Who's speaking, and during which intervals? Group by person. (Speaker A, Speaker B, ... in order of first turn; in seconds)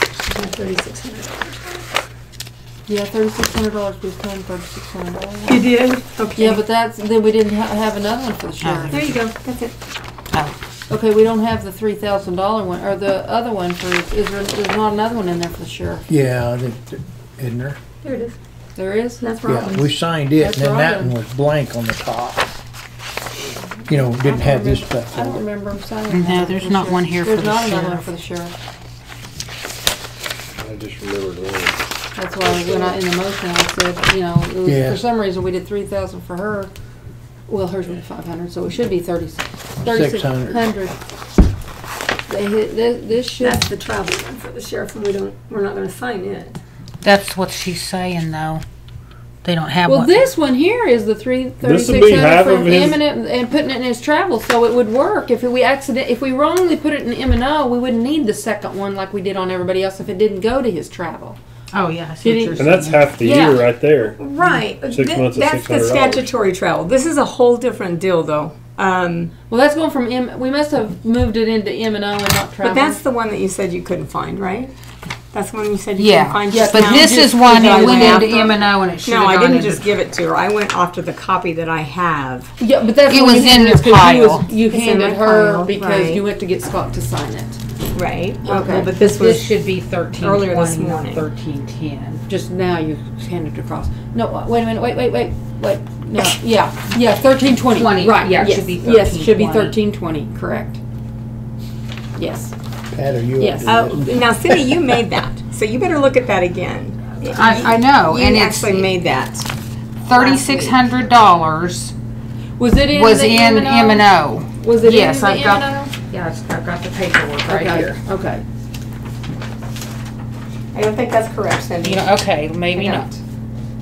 Speaker A: 0.2-1.9, 5.5-6.6, 8.9-9.7, 18.0-18.4, 19.2-19.9, 43.4-46.6, 64.1-69.3, 72.6-74.7, 75.3-82.5, 84.6-86.2, 87.9-89.5, 90.2-91.3, 103.6-109.5, 110.1-110.8, 117.3-118.0, 120.7-122.1, 122.7-123.2
Speaker B: 2.9-5.7, 6.3-9.0, 10.9-16.1, 18.8-19.3, 20.4-21.2, 23.9-28.5, 32.1-36.7, 37.5-40.9, 42.3-43.6, 49.8-61.4, 62.2-63.6, 69.5-73.0, 76.5-78.5, 82.6-87.6, 88.5-88.9, 92.2-100.8, 102.2-102.5, 103.4-103.8, 112.6-115.9, 117.5-118.4
Speaker C: 8.6-9.1, 26.1-28.1, 47.0-48.6, 49.4-50.2, 61.7-63.5, 76.0-79.9, 83.1-84.5, 88.5-92.2, 97.6-99.8, 107.2-108.9, 110.1-111.9, 112.9-117.7, 121.8-123.1
Speaker D: 16.1-17.8, 19.4-22.5, 23.9-25.4, 34.6-35.0, 39.8-40.6, 102.9-104.8
Speaker E: 30.6-31.8, 32.4-33.0, 51.6-53.0, 62.5-64.2, 64.9-66.3